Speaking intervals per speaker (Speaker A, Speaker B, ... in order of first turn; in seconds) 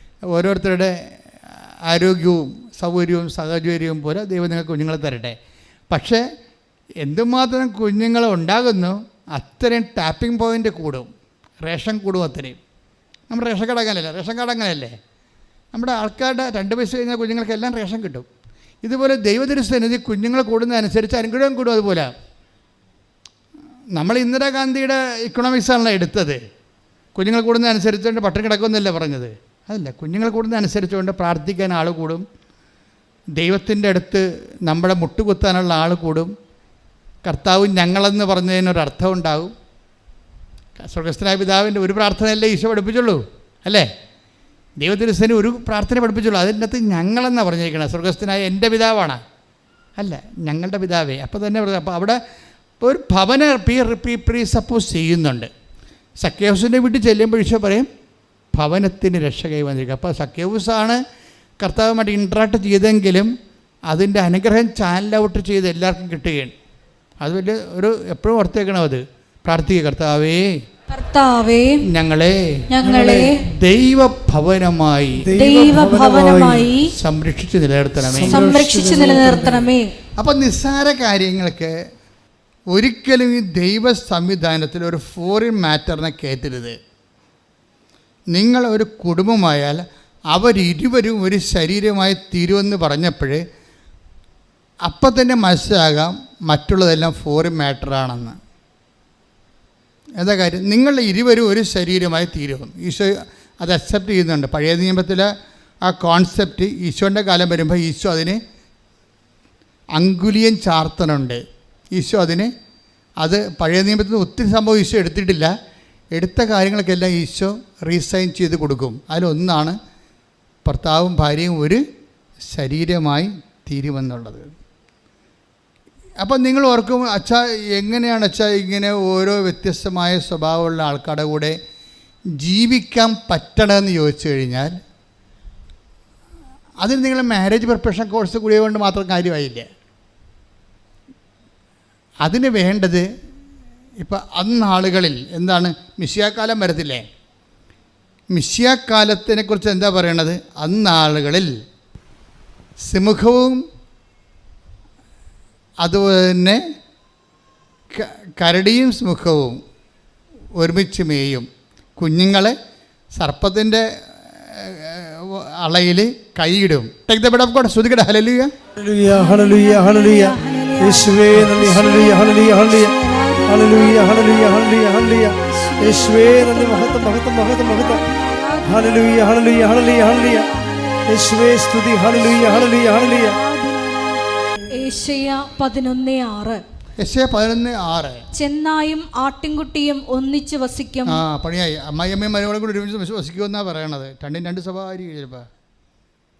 Speaker A: 0.3-0.9, 1.9-5.4, 5.9-6.2, 7.0-11.1, 11.6-12.6, 13.3-14.9, 15.7-18.2, 18.8-22.1, 23.9-26.4, 27.1-32.2, 33.4-36.3, 37.2-39.5, 40.8-43.9, 44.8-49.2, 50.0-52.2, 52.8-55.5, 56.2-57.9, 58.5-61.0, 61.6-63.3, 63.9-66.5, 67.2-70.5, 71.9-72.6, 73.6-75.2, 76.9-78.3, 80.2-81.7, 82.7-86.8, 88.3-93.4, 94.8-98.4, 100.2-105.3, 105.8-108.4, 110.0-111.4, 111.9-112.5, 113.2-115.5, 116.2-119.8, 120.7-121.8, 122.5-124.5, 126.2-131.6, 132.4-134.7, 136.8-139.7, 142.2-143.1, 144.0-147.0, 148.3-151.6, 152.9-153.6, 155.8-156.6, 157.9-159.6, 160.6-162.6, 163.2-168.5, 187.0-188.2, 191.1-195.4
Speaker B: 70.9-71.8, 72.7-73.4, 75.3-76.9, 78.3-79.9, 169.1-174.8, 175.4-179.0, 180.0-181.2, 182.3-184.2, 184.7-186.6, 188.3-191.2
Speaker C: 72.8-73.3, 75.2-76.7, 78.0-79.7, 168.7-172.9, 173.5-178.0, 178.6-180.5, 181.1-183.4